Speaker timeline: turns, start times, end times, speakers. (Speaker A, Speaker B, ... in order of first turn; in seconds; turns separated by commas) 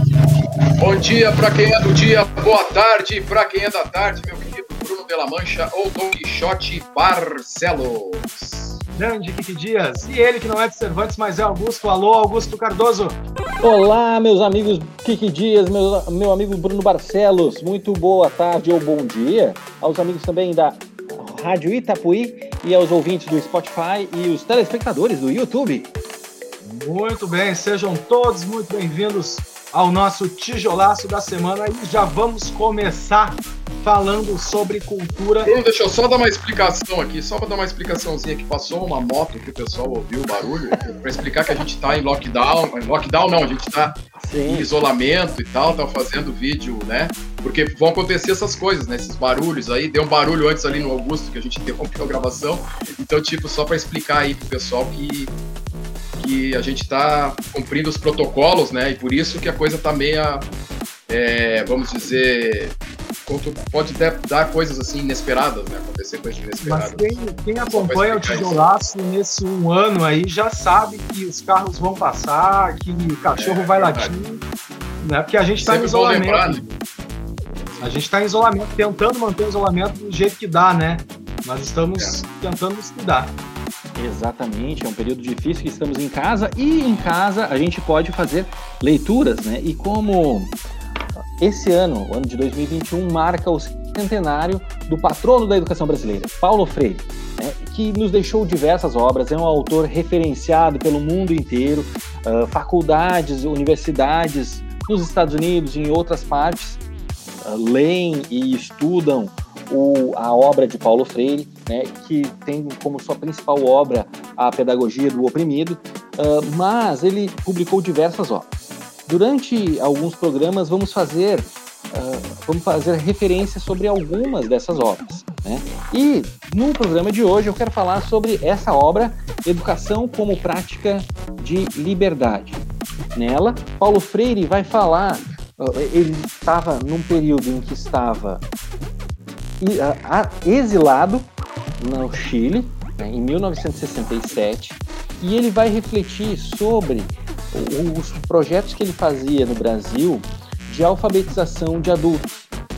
Speaker A: 0.8-8.8, Speaker B: 9.0-13.2, Speaker C: 13.6-25.9, Speaker B: 26.6-35.5, Speaker A: 35.4-55.3, Speaker C: 44.1-44.7, Speaker A: 56.2-60.5, Speaker A: 61.1-68.6, Speaker B: 66.6-74.4, Speaker A: 73.3-74.1, Speaker B: 75.0-76.7, Speaker A: 75.6-76.6, Speaker B: 77.8-83.3, Speaker C: 83.9-90.5, Speaker C: 91.4-106.8, Speaker C: 107.4-118.5, Speaker C: 119.0-132.6, Speaker C: 133.1-138.4, Speaker C: 139.6-152.4